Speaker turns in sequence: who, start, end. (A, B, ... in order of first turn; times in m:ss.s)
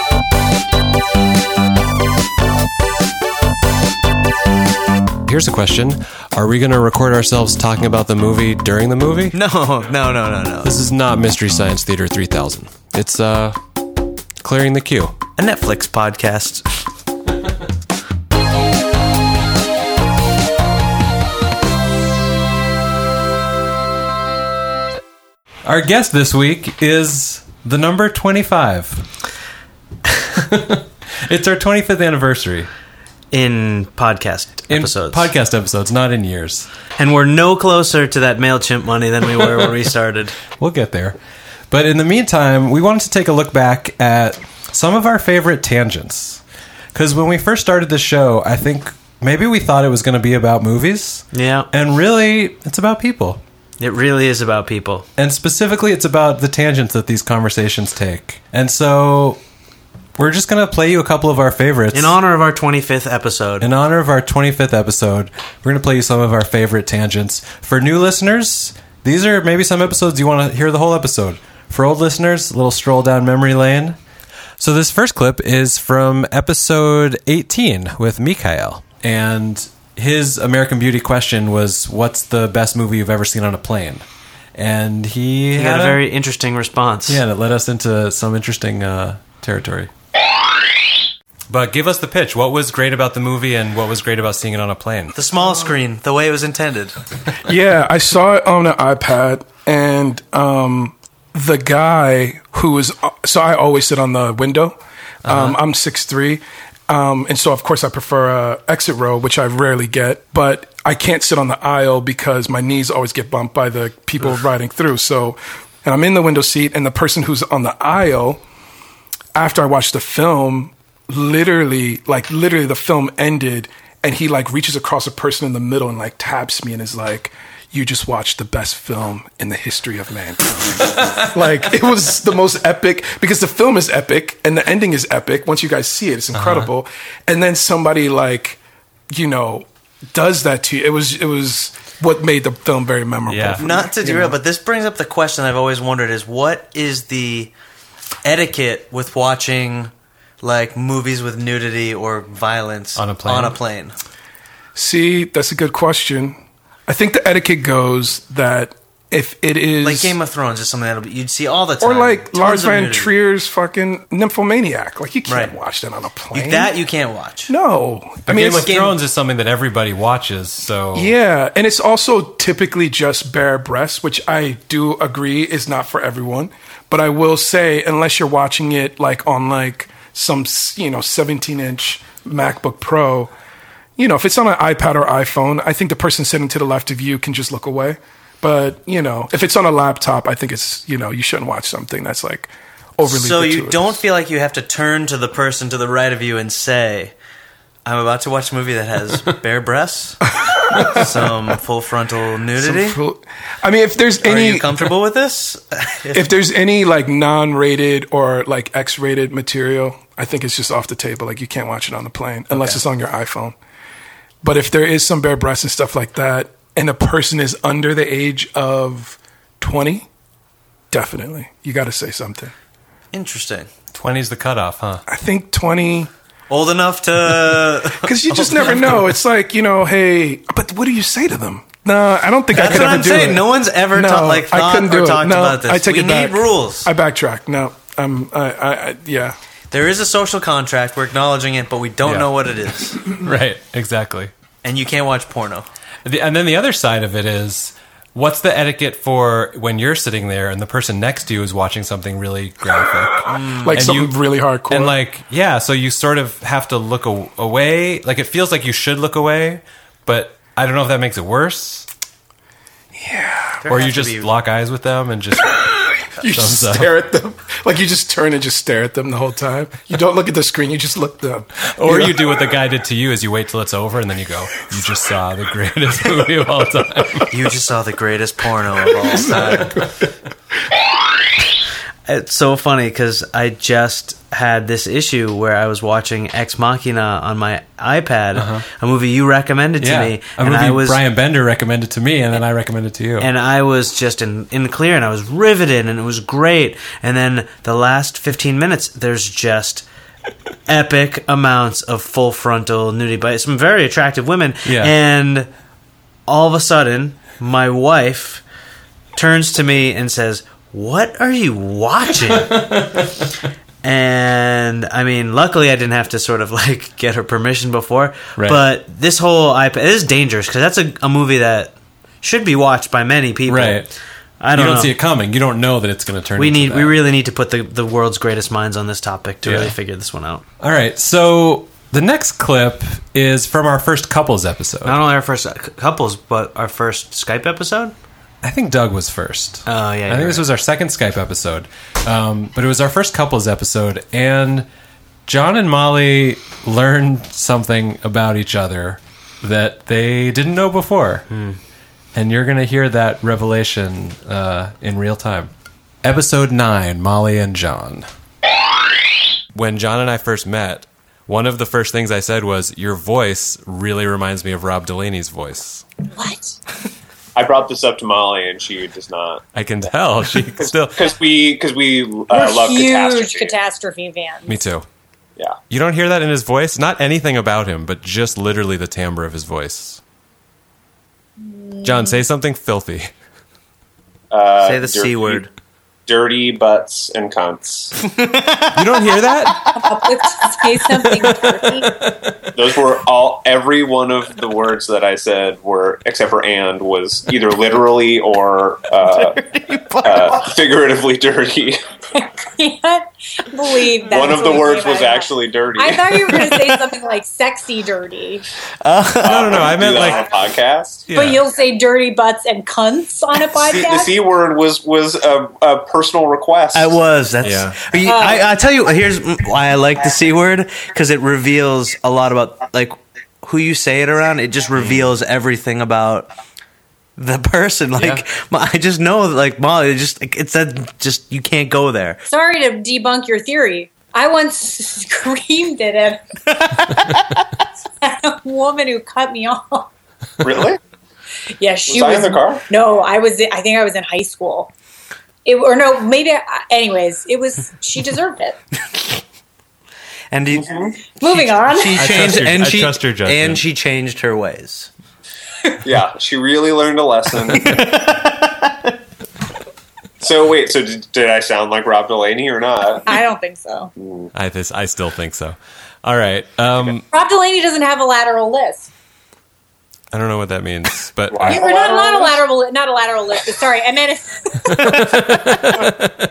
0:05.2-0:09.4 A
0:09.3-0:10.7 B
0:10.6-0:13.6 A
0:14.4-0:15.2 A
0:15.4-0:16.6 B
0:25.6-0:29.1 A
0:30.3-0:32.7 A
0:33.3-0:35.3 B
0:34.7-0:36.7 A
0:37.0-0:40.4 B
0:40.6-0:41.2 A
0:41.7-0:46.4 A
0:46.9-0:53.4 A
0:51.3-0:51.7 B
0:53.8-0:55.0 B
0:55.2-0:59.4 A
1:00.2-1:02.2 A
1:01.9-1:03.7 B
1:03.6-1:14.0 A
1:14.6-1:26.0 A
1:25.5-1:27.2 B
1:27.1-1:29.9 A
1:31.5-1:35.2 A
1:35.1-1:36.9 B
1:37.4-1:44.7 C
1:45.2-1:45.6 A
1:45.2-1:58.4 C
1:59.3-2:18.6 C
2:16.3-2:16.7 A
2:19.1-2:24.3 C
2:23.3-2:23.7 A
2:23.6-2:27.5 B
2:28.2-2:33.9 B
2:33.0-2:33.6 A
2:34.7-2:40.2 C
2:39.8-2:43.1 B
2:41.8-2:46.7 C
2:45.3-2:45.5 B
2:46.3-2:47.5 B
2:47.5-2:48.7 C
2:48.3-2:51.1 A
2:48.5-2:48.9 B
2:50.9-3:03.3 C
3:04.0-3:13.9 C
3:13.0-3:17.1 B
3:17.8-3:20.2 B
3:20.8-3:23.0 B
3:22.6-3:24.9 C
3:24.2-3:26.3 B
3:26.1-3:33.5 C
3:32.5-3:32.8 B
3:34.4-3:40.0 C
3:40.9-3:42.5 C
3:43.1-3:43.7 B
3:43.9-3:45.0 A
3:45.1-3:46.1 C
3:46.5-3:49.2 B
3:48.0-3:59.4 C
3:52.5-3:56.9 B
3:59.7-4:03.0 B
4:02.0-4:02.3 A
4:03.0-4:04.3 A
4:04.6-4:05.7 B
4:06.0-4:14.2 A
4:13.3-4:14.0 B
4:13.6-4:15.0 C
4:14.7-4:21.9 A
4:23.0-4:23.6 C
4:23.6-4:24.3 B
4:23.7-4:25.6 A
4:26.2-4:32.3 C
4:26.3-4:26.9 A
4:31.7-4:37.3 A
4:37.3-4:39.9 B
4:42.0-4:51.0 B
4:48.3-4:48.6 A
4:49.8-4:53.3 A
4:53.2-4:59.8 B
5:00.7-5:05.5 B
5:04.6-5:04.9 A
5:06.3-5:08.4 B
5:09.1-5:12.8 B
5:12.7-5:13.0 A
5:13.8-5:24.9 B
5:18.4-5:18.6 A
5:23.5-5:23.9 A
5:24.5-5:26.9 A
5:26.4-5:30.4 B
5:29.4-5:29.7 A
5:30.6-5:35.0 A
5:34.8-5:37.9 B
5:38.4-5:44.7 A
5:39.6-5:40.5 B
5:45.3-5:51.3 A
5:51.3-5:51.6 B
5:52.1-5:55.5 A
5:56.0-5:58.0 A
5:59.5-6:05.8 A
6:06.1-6:06.6 D
6:07.4-6:09.4 E
6:09.5-6:11.0 A
6:10.6-6:13.6 E
6:12.3-6:14.6 D
6:14.5-6:14.8 A
6:15.7-6:20.0 A
6:21.4-6:22.2 D
6:21.8-6:23.1 A
6:24.3-6:25.4 E
6:24.6-6:25.5 B
6:26.1-6:27.9 E
6:28.0-6:28.7 B
6:28.7-6:29.7 A
6:29.4-6:29.8 B
6:29.8-6:32.0 D
6:32.5-6:39.4 E
6:39.1-6:40.5 B
6:40.0-6:41.8 E
6:42.1-6:48.4 D
6:44.1-6:46.4 E
6:46.4-6:46.7 B
6:48.8-6:49.7 B
6:49.2-6:51.1 E
6:49.2-6:50.3 A
6:51.1-6:51.4 A
6:51.1-6:54.1 D
6:53.6-6:57.0 E
6:56.7-7:06.3 B
6:57.4-6:57.8 A
6:58.0-6:58.5 D
7:07.2-7:12.2 B
7:12.3-7:16.8 D
7:16.7-7:17.0 B
7:18.0-7:19.9 D
7:20.4-7:20.8 E
7:21.6-7:24.7 D
7:21.9-7:22.6 E
7:25.4-7:28.6 D
7:30.3-7:30.7 B
7:30.6-7:30.9 E
7:31.2-7:32.2 D
7:31.2-7:34.9 B
7:31.9-7:33.6 A
7:35.8-7:37.8 E
7:37.5-7:38.9 B
7:40.2-7:43.2 E
7:43.1-7:43.9 D
7:44.0-7:44.3 E
7:44.3-7:47.0 A
7:47.1-7:48.9 D
7:50.1-7:51.6 A
7:51.3-7:52.4 E
7:51.5-7:55.1 D
7:54.7-7:56.1 A